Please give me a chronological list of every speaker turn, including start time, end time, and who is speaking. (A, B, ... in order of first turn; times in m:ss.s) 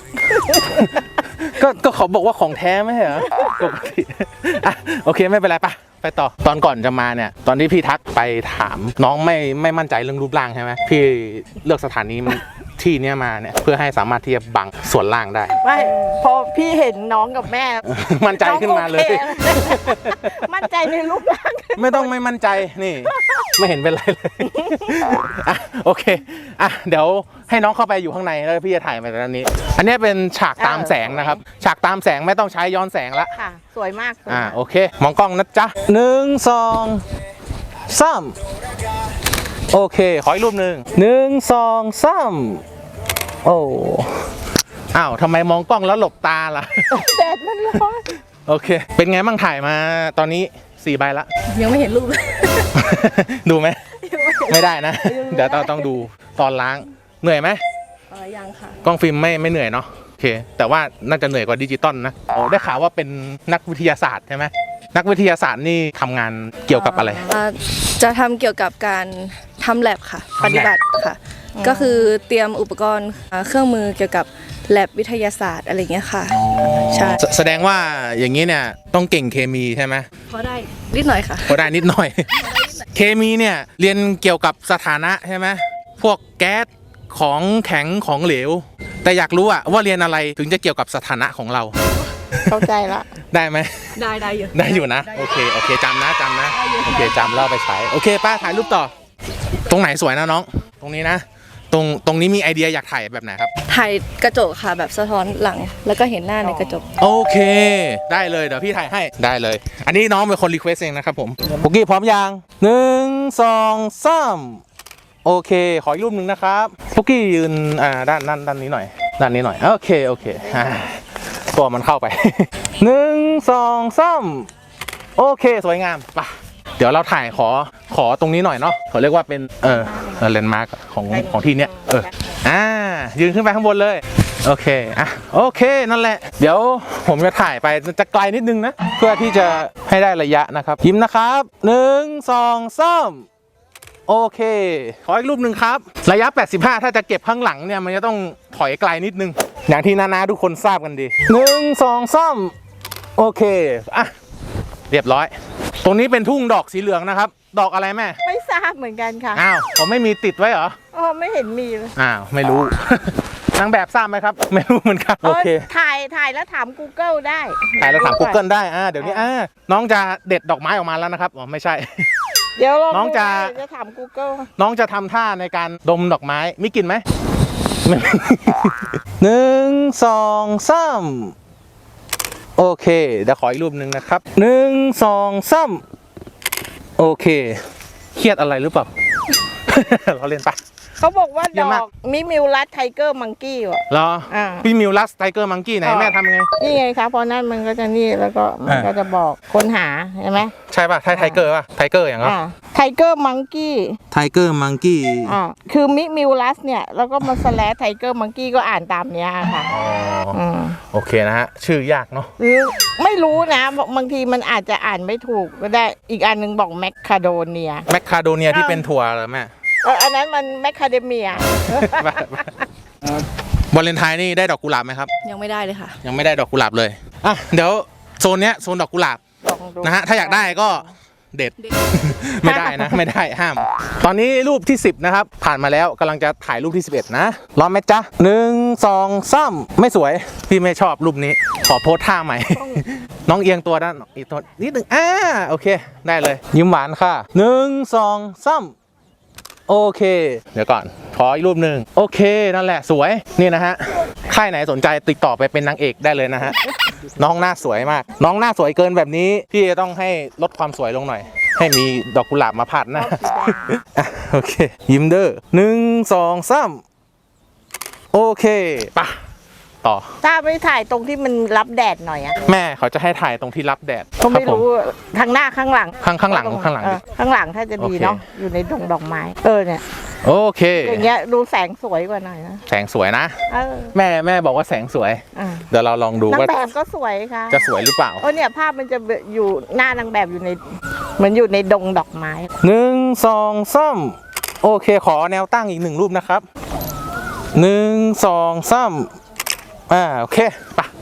0:00.4-0:15.6 A
0:15.6-0:22.1 B
0:17.9-0:20.4 A
0:21.8-0:33.4 A
0:23.1-0:23.5 B
0:24.4-0:25.2 B
0:30.6-0:31.4 B
0:33.4-0:34.6 B
0:34.3-0:37.0 A
0:37.9-0:38.5 A
0:39.7-0:42.6 A
0:43.4-0:44.4 A
0:44.9-0:47.0 A
0:46.9-0:48.1 B
0:48.5-0:51.3 A
0:51.5-0:52.7 C
0:52.8-0:53.8 A
0:54.0-0:55.9 C
0:54.5-0:57.6 A
0:58.1-0:58.8 C
0:58.8-1:07.3 A
1:06.7-1:17.2 C
1:10.4-1:10.7 A
1:11.6-1:12.1 B
1:16.3-1:20.1 A
1:20.3-1:21.7 C
1:21.4-1:31.8 A
1:22.4-1:22.8 C
1:32.3-1:32.6 A
1:32.5-1:33.1 B
1:33.3-1:34.0 A
1:34.0-1:35.5 C
1:34.5-1:38.9 A
1:36.5-1:37.5 C
1:39.5-1:43.5 A
1:43.7-1:46.9 C
1:46.4-1:46.9 B
1:47.0-1:54.6 A
1:55.2-2:04.5 A
2:00.4-2:00.8 B
2:05.2-2:23.3 A
2:09.6-2:10.3 B
2:11.1-2:12.4 B
2:24.1-2:32.5 A
2:33.2-2:34.1 A
2:34.9-2:38.2 A
2:38.2-2:39.4 B
2:39.4-2:40.8 A
2:40.9-2:41.9 B
2:42.0-2:45.6 A
2:45.2-2:48.4 B
2:47.8-2:52.1 A
2:49.0-2:49.3 B
2:52.6-2:54.5 B
2:52.9-2:53.6 A
2:54.6-2:57.0 A
2:57.8-3:01.4 A
3:02.6-3:05.8 A
3:07.0-3:07.6 A
3:08.2-3:08.9 A
3:09.7-3:10.6 A
3:11.0-3:14.7 B
3:11.5-3:11.8 A
3:13.9-3:16.5 A
3:15.8-3:20.5 B
3:18.7-3:19.0 A
3:20.4-3:22.4 A
3:21.1-3:21.4 B
3:22.2-3:24.0 B
3:24.1-3:25.4 A
3:25.3-3:29.7 B
3:29.7-3:32.3 A
3:30.3-3:30.8 B
3:32.4-3:37.9 B
3:37.9-3:39.5 A
3:38.5-3:38.9 B
3:39.8-3:42.5 B
3:41.4-3:42.6 A
3:43.7-3:45.1 A
3:45.2-3:46.0 C
3:46.0-3:49.2 A
3:49.4-3:50.9 B
3:49.8-4:08.7 A
3:52.4-3:53.0 B
4:02.5-4:02.8 B
4:09.7-4:26.8 A
4:22.9-4:23.8 B
4:28.1-4:29.2 A
4:29.8-4:30.1 A
4:30.2-4:32.4 B
4:32.4-4:34.6 A
4:34.2-4:39.8 B
4:36.0-4:37.0 A
4:37.8-4:38.2 A
4:40.2-4:41.1 A
4:40.8-4:42.6 B
4:42.7-4:43.4 A
4:43.5-4:43.9 B
4:43.9-4:46.6 A
4:45.4-4:45.7 B
4:46.3-4:50.6 B
4:47.5-4:48.3 A
4:51.2-4:52.5 B
4:52.6-4:56.5 A
4:57.5-4:59.2 A
4:59.9-5:00.9 A